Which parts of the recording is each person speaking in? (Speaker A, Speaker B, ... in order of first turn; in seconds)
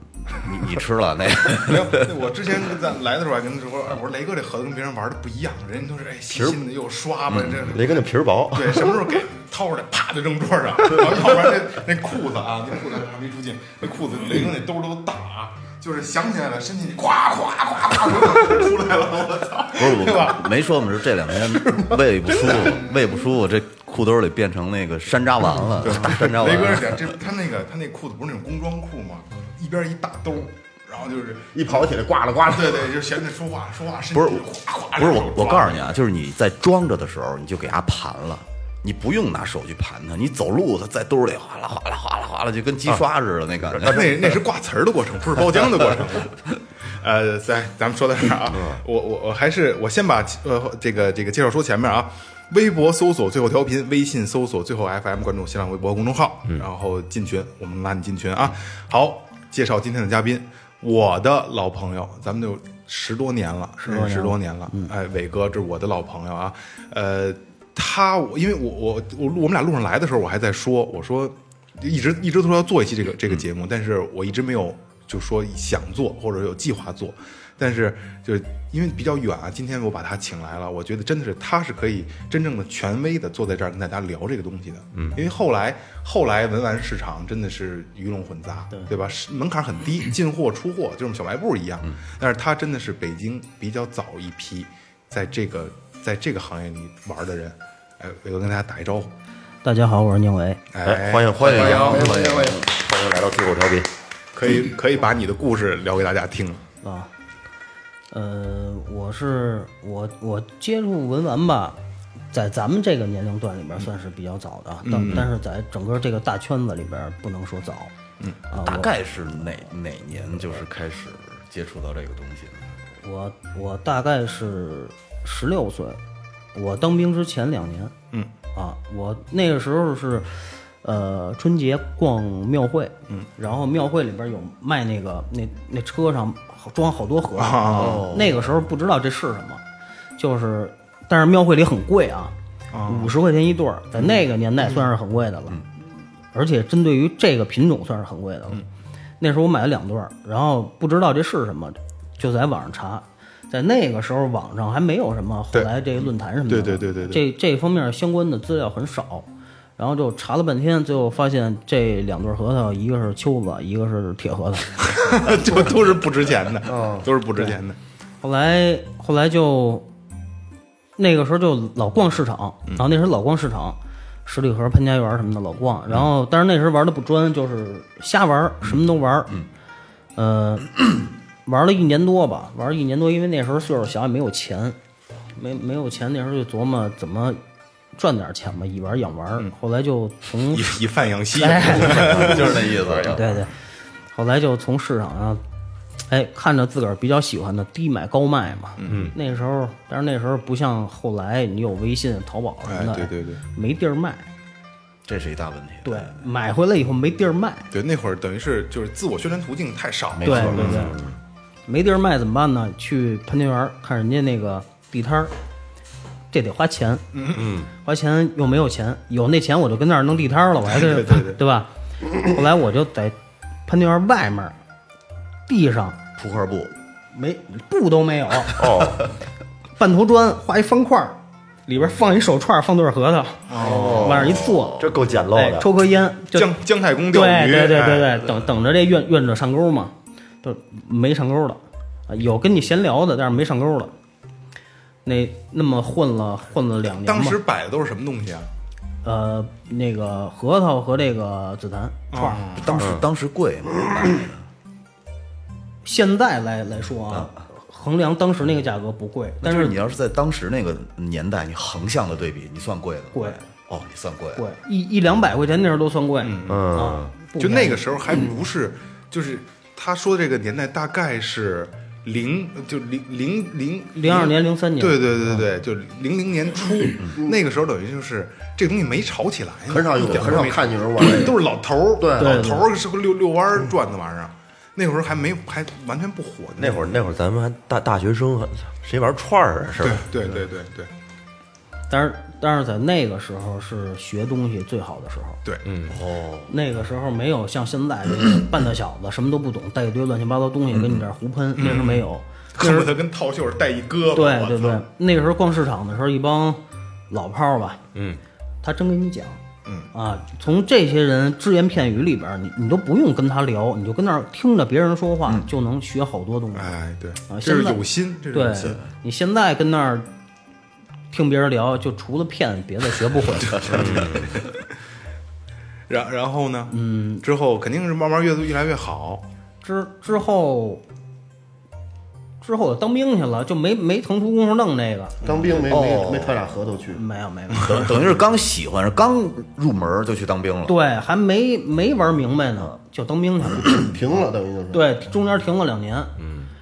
Speaker A: 0.3-2.1, 19.8-27.2, 34.1-44.1, 101.4-102.6, 118.6-122.7, 137.7-138.3, 191.6-193.2, 205.1-206.2, 210.1-211.0, 226.2-226.7, 233.6-235.0, 252.5-254.4, 257.1-257.4, 259.4-264.4, 295.9-296.5, 300.7-301.0, 335.6-336.5, 337.6-340.8
Speaker B: 1.6-20.6, 21.7-23.1, 25.8-31.9, 32.5-36.0, 43.8-99.1, 100.7-102.2, 104.3-106.6, 114.8-115.3, 137.4-138.2, 142.7-143.1, 144.0-144.8, 156.5-157.2, 164.8-167.8, 190.5-193.2, 198.8-199.1, 202.7-203.4, 207.7-211.0, 217.1-217.5, 220.7-221.4, 233.5-234.2, 236.3-238.4, 247.0-248.5, 252.1-252.8, 266.2-286.9, 289.8-290.9, 301.6-304.8, 316.5-318.8, 323.6-324.5, 325.9-329.2
Speaker C: 6.3-6.6, 7.6-8.9, 43.8-44.3, 48.5-48.8, 85.0-85.2, 100.8-103.9, 198.8-199.1, 210.5-211.0, 217.3-217.7, 228.5-229.0, 234.8-235.7, 252.7-253.1, 266.5-267.1, 286.6-290.1, 295.6-296.0, 323.8-324.2
Speaker D: 31.5-32.9, 101.5-102.7, 166.7-167.1, 279.7-281.4, 282.0-282.4, 335.2-337.0, 343.7-344.8
Speaker E: 63.8-64.9, 99.6-100.6, 106.8-107.1, 108.1-111.8, 112.3-117.9, 118.5-118.9, 123.0-126.0, 126.5-127.9, 128.5-139.6, 140.2-142.3, 142.9-145.6, 146.3-148.6, 149.2-164.7, 168.2-169.9, 171.0-179.3, 180.2-180.8, 181.5-184.8, 185.3-187.4, 188.0-190.8, 191.3-192.5, 193.1-193.5, 194.1-195.4, 196.1-204.3, 205.8-207.7, 210.2-211.0, 211.7-215.3, 216.3-217.0, 217.8-224.6, 225.5-226.0, 227.1-228.7, 229.8-234.8, 235.3-236.6, 237.1-243.9, 245.0-247.4, 249.0-252.4, 255.8-259.7, 263.1-263.4, 264.4-267.9, 273.9-275.2, 282.2-282.7, 291.9-295.4, 296.5-302.9, 304.1-307.8, 308.6-309.4, 309.9-316.8, 317.3-320.1, 321.1-323.8, 326.7-327.2, 329.6-330.8, 332.4-335.2, 336.9-337.8, 340.7-343.8, 344.7-346.1